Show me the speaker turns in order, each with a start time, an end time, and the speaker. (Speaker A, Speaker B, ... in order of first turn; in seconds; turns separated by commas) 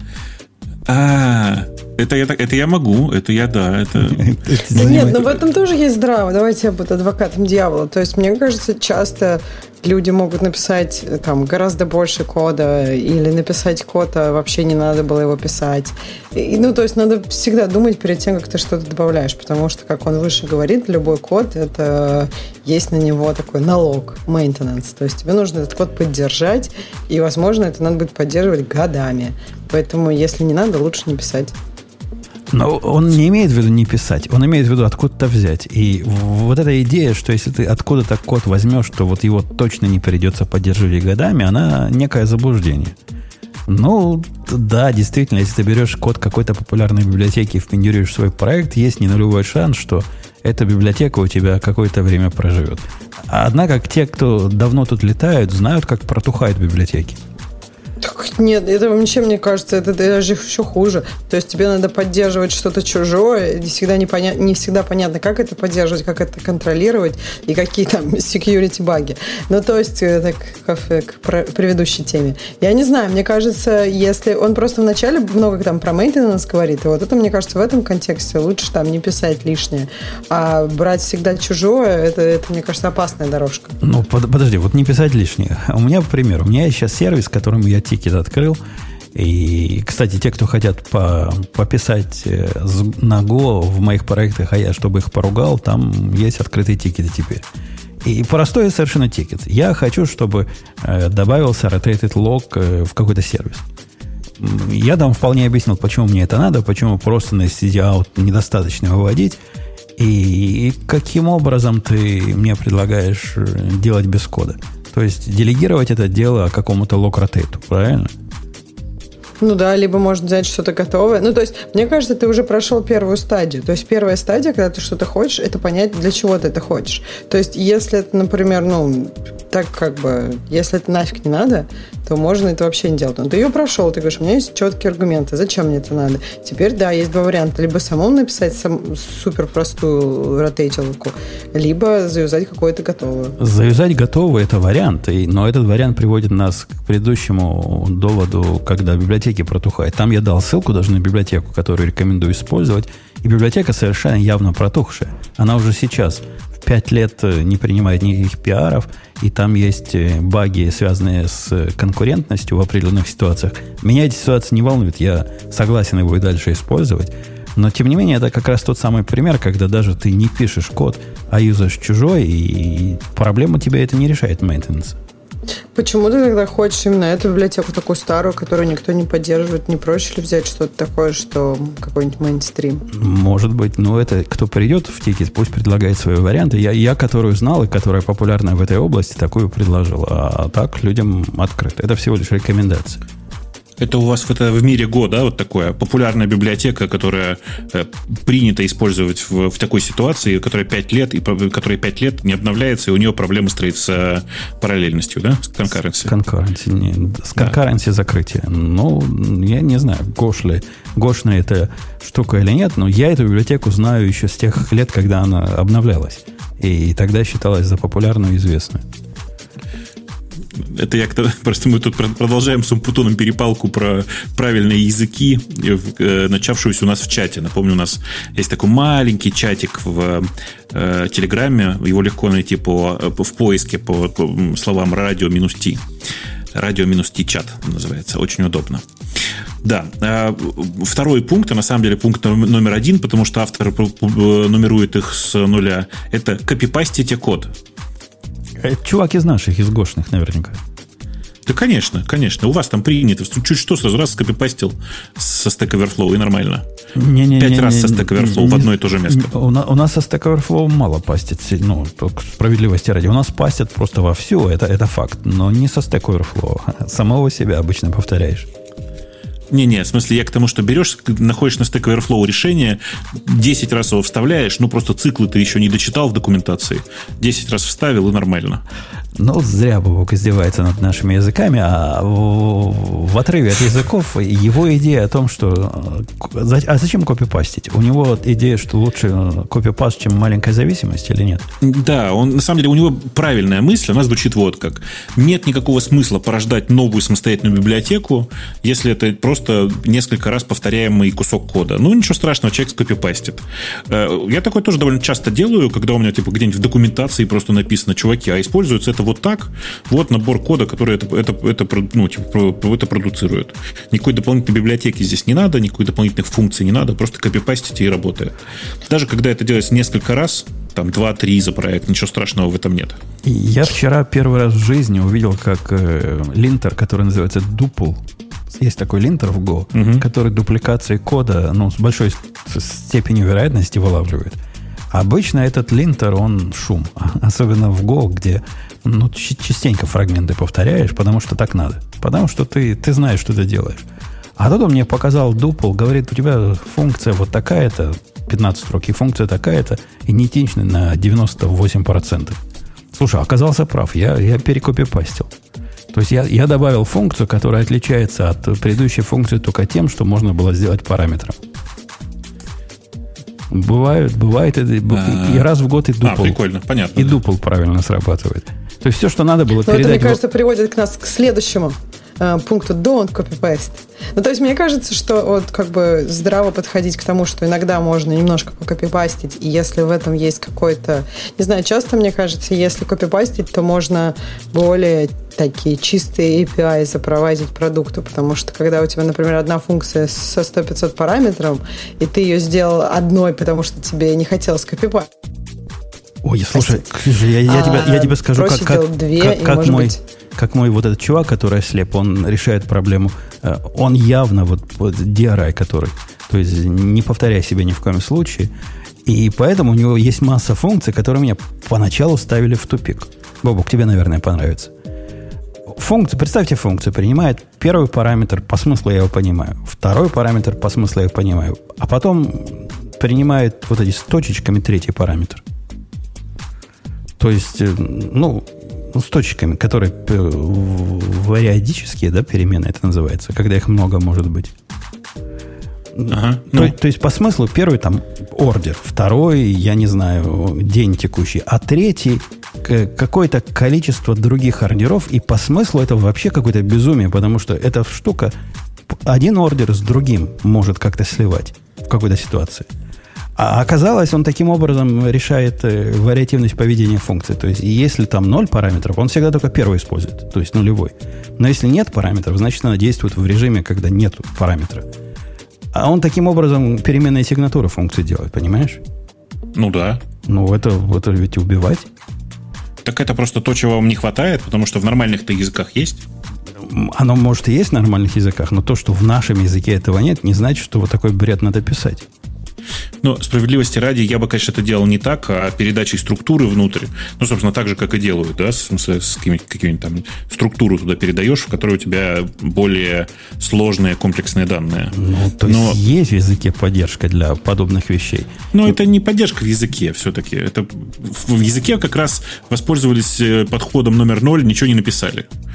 Speaker A: 0.8-5.3, Speaker B: 4.0-5.3, Speaker C: 4.7-31.5, Speaker B: 32.5-42.9, Speaker B: 43.7-57.2, Speaker C: 58.0-83.8, Speaker B: 83.8-88.6, Speaker B: 89.1-97.4, Speaker B: 98.0-103.6, Speaker B: 104.4-109.4, Speaker B: 110.0-118.1, Speaker C: 119.4-143.3, Speaker B: 143.4-175.0, Speaker C: 175.7-182.8, Speaker B: 182.9-193.0, Speaker A: 193.8-206.1, Speaker B: 205.9-218.8, Speaker A: 220.6-235.8, Speaker A: 236.5-238.8, Speaker A: 239.6-247.5, Speaker B: 248.6-250.6, Speaker A: 251.4-256.6, Speaker B: 256.9-268.5, Speaker A: 257.4-259.3, Speaker A: 269.5-278.6, Speaker B: 279.1-291.5, Speaker A: 291.6-318.3, Speaker A: 318.9-323.0, Speaker B: 323.2-334.4, Speaker A: 329.7-330.0, Speaker B: 334.9-343.8, Speaker B: 344.4-352.4, Speaker B: 352.9-355.3, Speaker B: 355.9-361.4, Speaker B: 363.5-366.4, Speaker A: 364.9-365.5, Speaker A: 366.0-367.2, Speaker B: 366.9-370.2, Speaker C: 369.6-395.1, Speaker B: 396.2-408.5, Speaker C: 396.5-396.8, Speaker C: 397.4-400.0, Speaker B: 409.0-414.7, Speaker B: 415.7-425.4, Speaker B: 427.2-434.5, Speaker B: 435.9-448.3, Speaker A: 436.1-436.7, Speaker B: 448.9-452.7, Speaker B: 453.4-464.9, Speaker B: 465.7-468.8, Speaker A: 469.5-470.0, Speaker B: 470.2-471.9, Speaker A: 472.8-476.0, Speaker B: 476.6-482.1, Speaker A: 483.0-495.8, Speaker B: 494.9-498.3, Speaker A: 498.5-505.3